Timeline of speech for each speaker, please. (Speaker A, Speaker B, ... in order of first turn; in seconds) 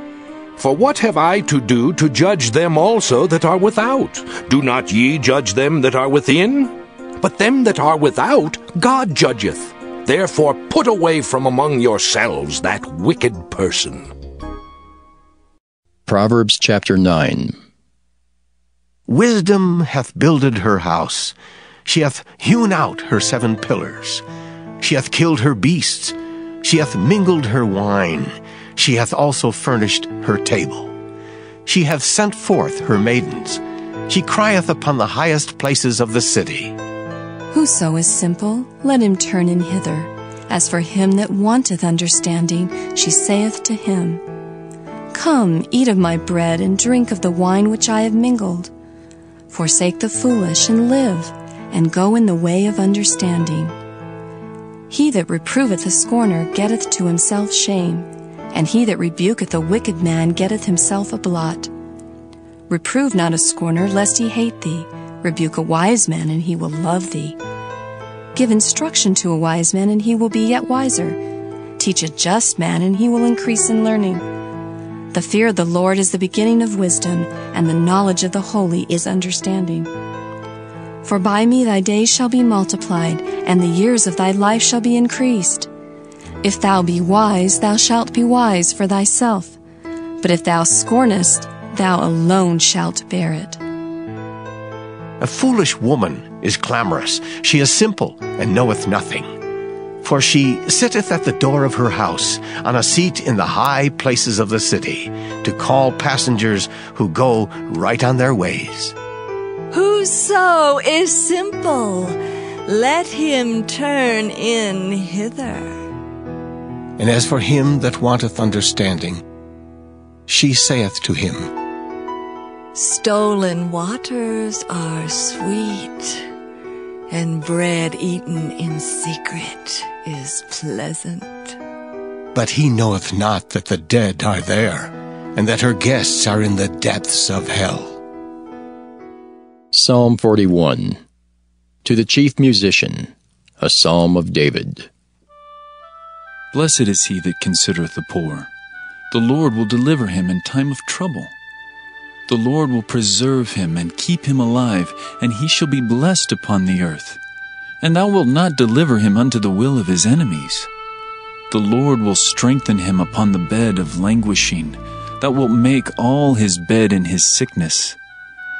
Speaker A: 0.6-14.1
Speaker B: 16.1-17.6, 139.7-141.0, 141.8-144.9
Speaker C: 19.1-24.2, 24.8-30.9, 31.7-36.8, 95.2-99.3, 100.0-109.0, 117.0-119.2, 120.3-121.5, 132.3-138.0
Speaker D: 37.5-44.2, 45.1-48.7, 49.5-53.8, 54.9-61.7, 62.7-67.4, 68.3-71.2, 71.8-74.2, 75.1-79.9, 81.0-85.7, 86.4-89.6, 90.2-93.6
Speaker E: 109.7-115.8, 122.8-126.2, 127.1-131.6
Speaker F: 146.5-148.5, 149.1-151.3, 152.3-157.2, 157.8-160.7, 161.5-168.0